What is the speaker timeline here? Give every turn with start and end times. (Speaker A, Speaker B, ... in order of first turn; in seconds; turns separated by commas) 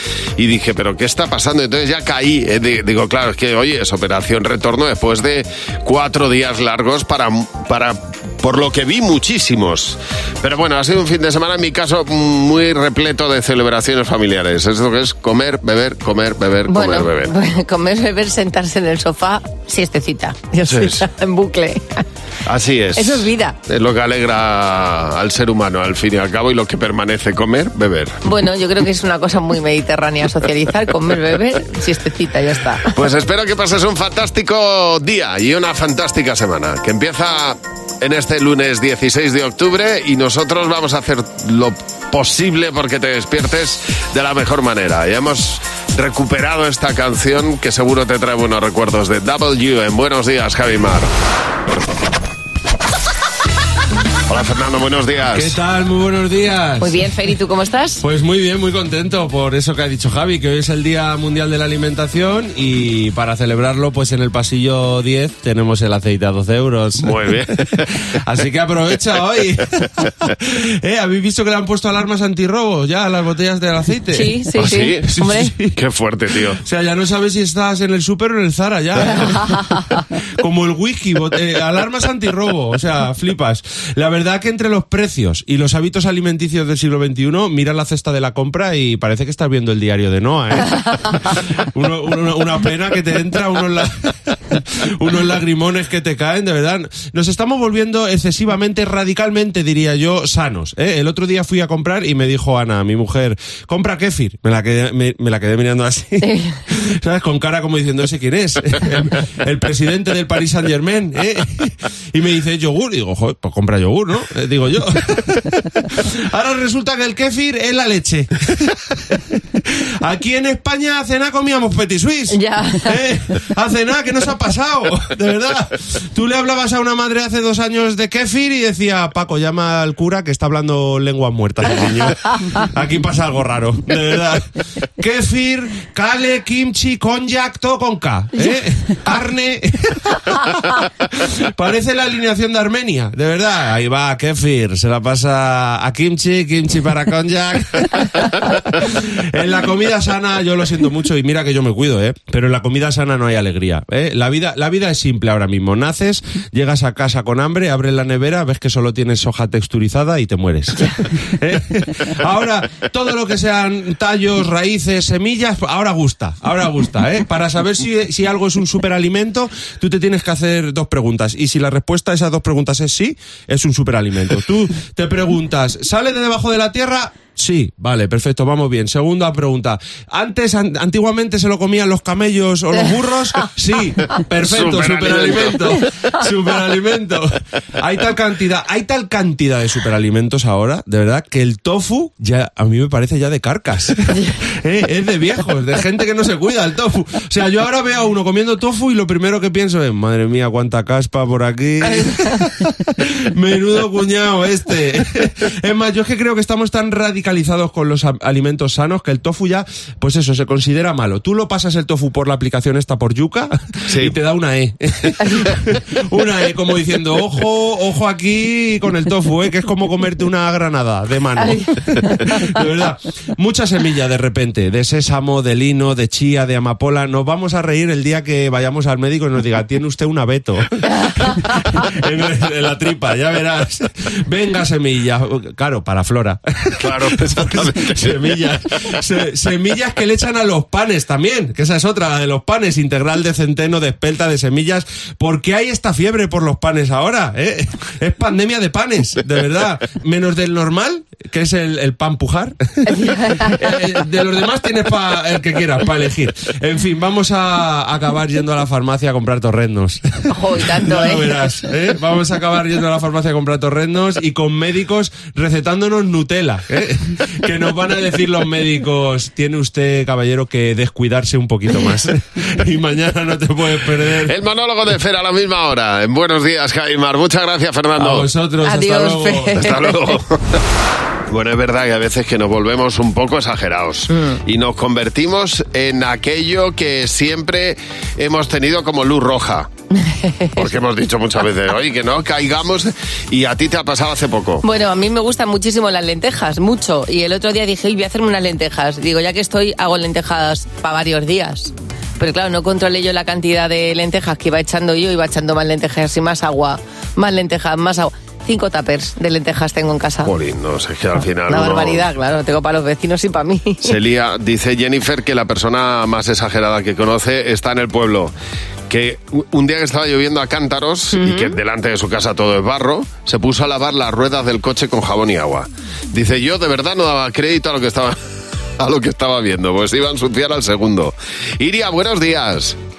Speaker A: 0.4-17.3, Speaker B: 16.7-22.1, Speaker A: 20.6-21.0, Speaker A: 22.5-28.1, Speaker B: 23.0-23.6, Speaker B: 28.2-32.9, Speaker A: 32.9-51.1, Speaker A: 54.3-55.5, Speaker C: 55.3-57.0, Speaker B: 56.8-58.0, Speaker C: 58.0-75.8, Speaker A: 67.0-67.6, Speaker B: 74.1-75.5, Speaker A: 74.6-75.1, Speaker A: 75.8-76.6, Speaker C: 76.6-79.8, Speaker B: 79.2-79.8, Speaker C: 80.4-134.5, Speaker B: 106.2-106.5, Speaker B: 122.3-123.0, Speaker C: 135.0-274.4, Speaker A: 184.4-185.6, Speaker A: 213.9-214.1, Speaker B: 221.4-222.5, Speaker A: 236.8-238.3, Speaker B: 252.9-253.6, Speaker B: 260.3-261.4, Speaker A: 274.3-278.3, Speaker C: 278.0-279.6, Speaker B: 278.6-279.9, Speaker A: 279.6-280.6, Speaker A: 281.3-289.7, Speaker B: 284.1-284.4, Speaker B: 289.9-290.7, Speaker A: 290.6-294.6, Speaker B: 294.6-310.3, Speaker A: 310.2-312.1, Speaker B: 311.5-313.9, Speaker A: 313.8-318.3, Speaker A: 318.9-328.2, Speaker B: 321.1-321.6, Speaker A: 328.8-332.8